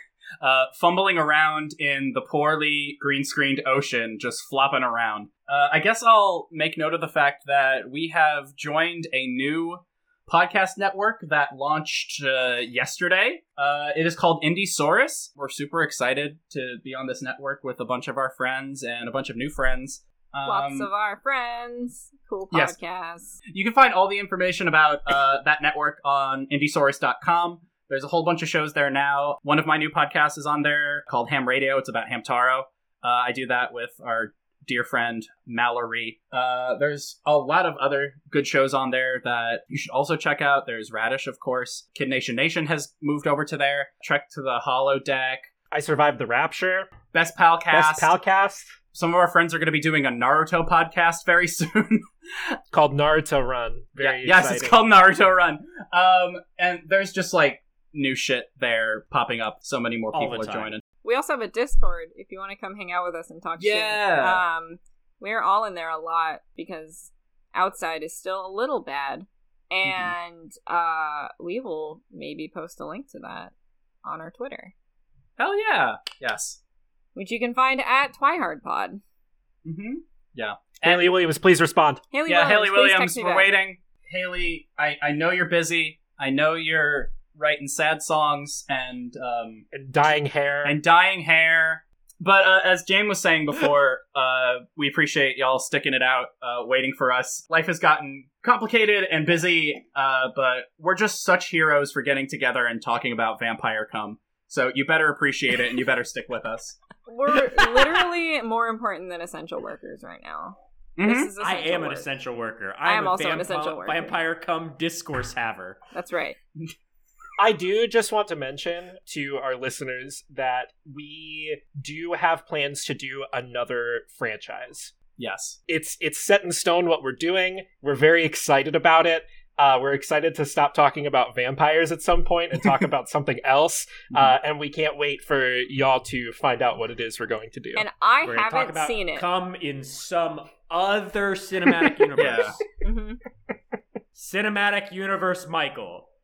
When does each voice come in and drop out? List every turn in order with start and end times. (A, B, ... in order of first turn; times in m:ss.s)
0:00.4-0:20.9 A
0:20.4-0:23.4 B
0:23.5-0:45.5 A
0:45.7-0:46.9 C
0:47.1-0:48.1 A
0:47.7-0:48.8 C
0:48.9-0:52.5 A
0:52.7-0:54.8 C
0:54.0-1:00.8 A
1:00.1-1:00.7 D
1:01.0-1:13.5 B
1:03.6-1:04.4 A
1:09.8-1:10.1 A
1:14.0-1:14.7 B
1:15.4-1:16.6 A
1:17.1-1:19.0 B
1:19.6-1:21.2 A
1:20.8-1:22.1 C
1:22.1-1:23.5 B
1:22.2-1:29.7 A
1:29.7-1:30.8 C
1:30.6-1:46.8 A
1:47.1-1:52.1 B
1:51.0-1:51.3 A
1:51.4-1:55.8 D
1:52.8-1:54.2 B
1:55.9-1:56.4 B
1:57.4-2:04.9 C
2:05.2-2:05.6 A
2:05.7-2:17.9 C
2:17.8-2:19.3 B
2:18.2-2:22.6 D
2:22.2-2:22.6 A
2:22.8-2:23.2 B
2:24.2-2:26.1 D